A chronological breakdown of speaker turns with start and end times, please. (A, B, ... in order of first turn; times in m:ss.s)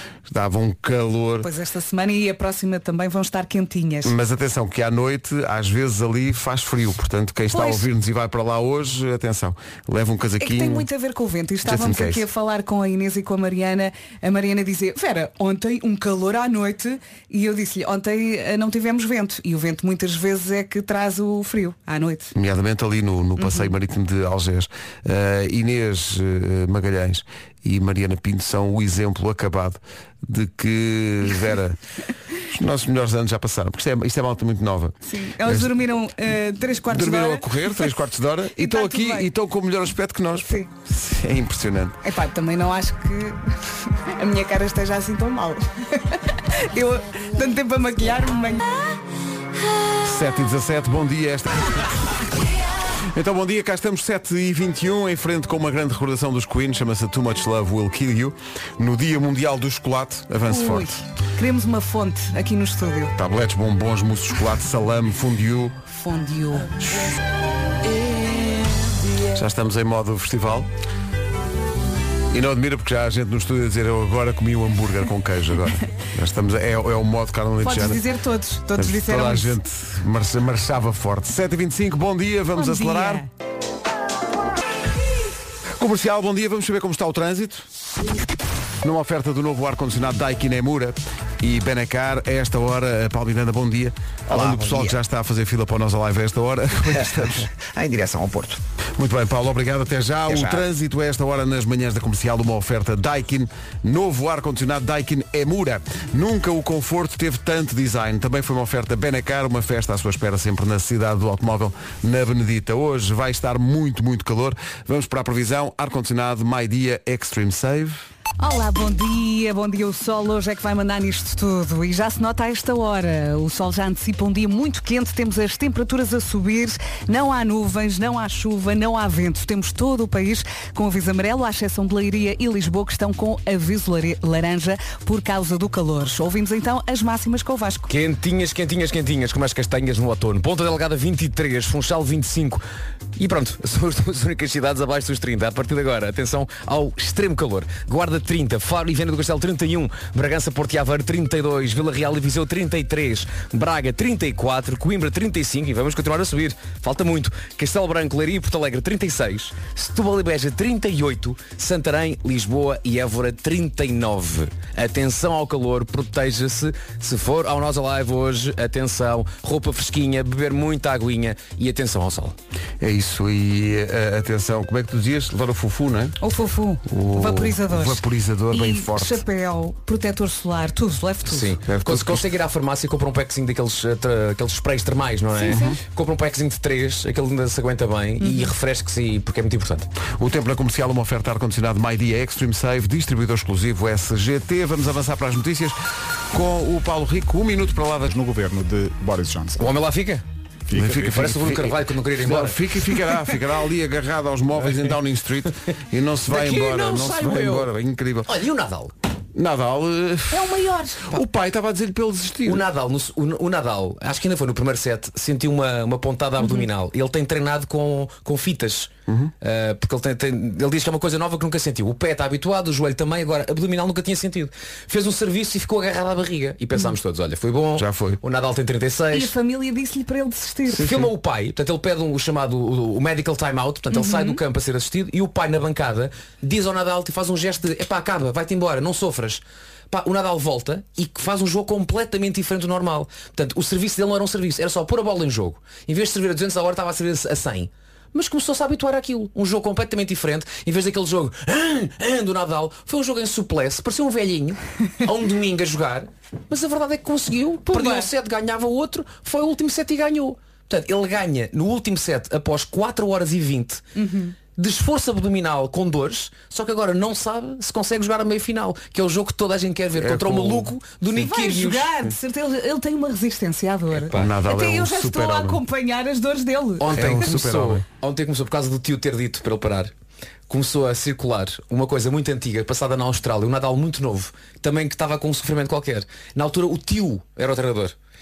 0:00.3-0:01.5 A
0:01.4-0:04.1 B
0:04.0-0:10.9 A
0:07.5-0:07.9 B
0:10.4-0:22.3 B
0:11.6-0:12.2 A
0:22.3-0:31.8 A
0:23.4-0:23.7 B
0:32.5-0:35.8 A
0:35.0-0:37.9 B
0:36.9-0:42.0 A
0:38.5-0:39.3 B
0:40.4-0:40.7 B
0:42.0-0:43.4 B
0:44.2-0:48.6 B
0:50.0-0:51.9 A
0:53.1-1:01.0 A
1:00.4-1:03.1 B
1:03.1-1:05.8 A
1:05.9-1:06.7 B
1:08.0-1:08.7 B
1:09.3-1:10.7 A
1:12.3-1:18.0 A
1:17.6-1:19.6 B
1:18.8-1:23.2 A
1:22.5-1:23.3 B
1:25.8-1:27.7 A
1:28.8-1:37.5 A
1:34.3-1:35.0 C
1:36.9-1:38.6 C
1:39.0-1:58.0 A
1:40.3-1:40.6 C
1:58.4-2:17.9 B
2:17.9-2:22.6 D
2:23.2-2:52.3 D
2:52.8-2:56.2 A
2:56.2-3:01.6 B
2:56.9-2:59.2 A
3:01.2-3:09.9 D
3:01.7-3:02.2 A
3:05.3-3:05.7 B
3:05.5-3:05.8 A
3:08.2-3:08.5 B
3:10.2-3:15.8 A
3:16.3-3:18.1 A
3:18.1-3:19.8 E
3:19.6-3:20.2 D
3:20.7-3:21.2 E
3:20.7-3:28.3 A
3:20.9-3:22.6 D
3:26.3-3:27.7 D
3:28.2-3:28.9 D
3:29.3-3:30.5 A
3:30.3-3:31.2 B
3:31.1-3:32.6 A
3:32.4-3:49.3 D
3:36.4-3:36.7 B
3:47.8-3:48.2 A
3:49.1-3:50.9 B
3:50.7-4:23.8 D
3:53.9-3:54.4 B
4:17.7-4:18.1 B
4:23.9-4:24.4 B
4:24.5-4:31.9 D
4:29.9-4:30.7 A
4:31.1-4:36.9 B
4:33.9-4:34.3 D
4:34.1-4:35.6 A
4:36.8-4:39.9 D
4:36.9-4:37.8 A
4:40.5-4:47.9 D